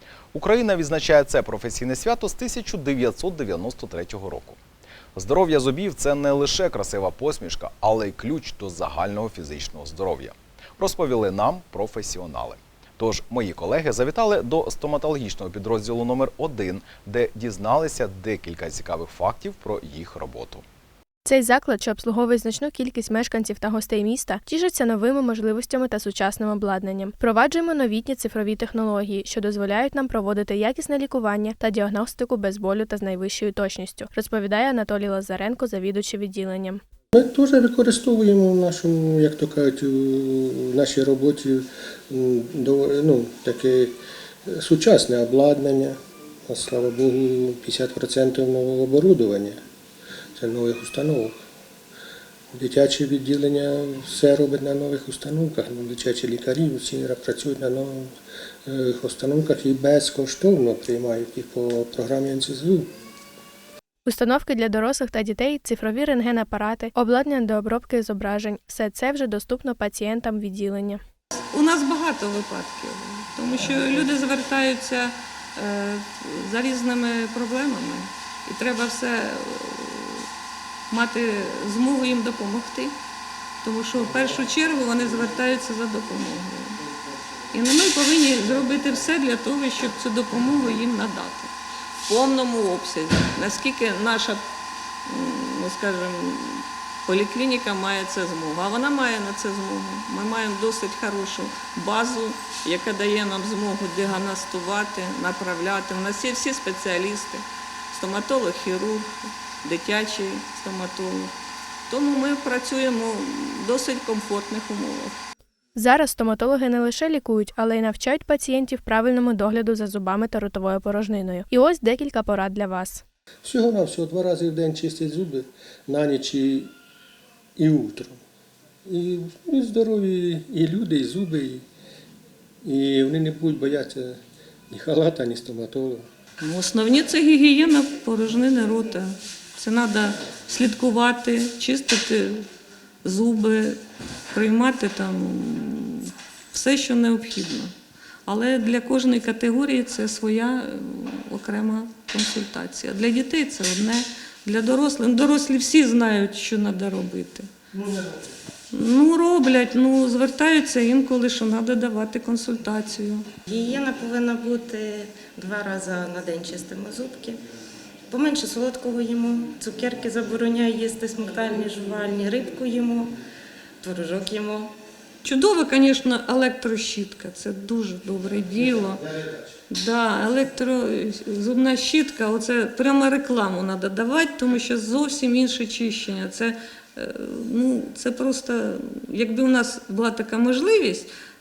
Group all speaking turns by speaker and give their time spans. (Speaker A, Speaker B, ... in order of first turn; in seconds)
Speaker A: 0.3-4.6, 5.2-20.6
Speaker B: 21.2-36.8, 64.0-71.0, 115.8-123.0
Speaker C: 37.1-49.6, 50.4-51.4, 52.5-62.9, 123.4-126.7, 127.5-128.2, 128.8-131.6, 132.6-134.2, 134.7-136.1
Speaker D: 71.5-80.2, 80.9-83.0, 83.6-86.8, 87.5-91.5, 92.0-94.4, 95.1-109.1, 109.6-111.3, 111.9-115.2, 136.4-142.4, 143.0-143.8, 144.3-147.7, 148.3-157.5, 158.7-163.3, 175.2-179.1, 179.7-191.1
Speaker E: 163.5-167.4, 168.1-173.1, 173.8-174.7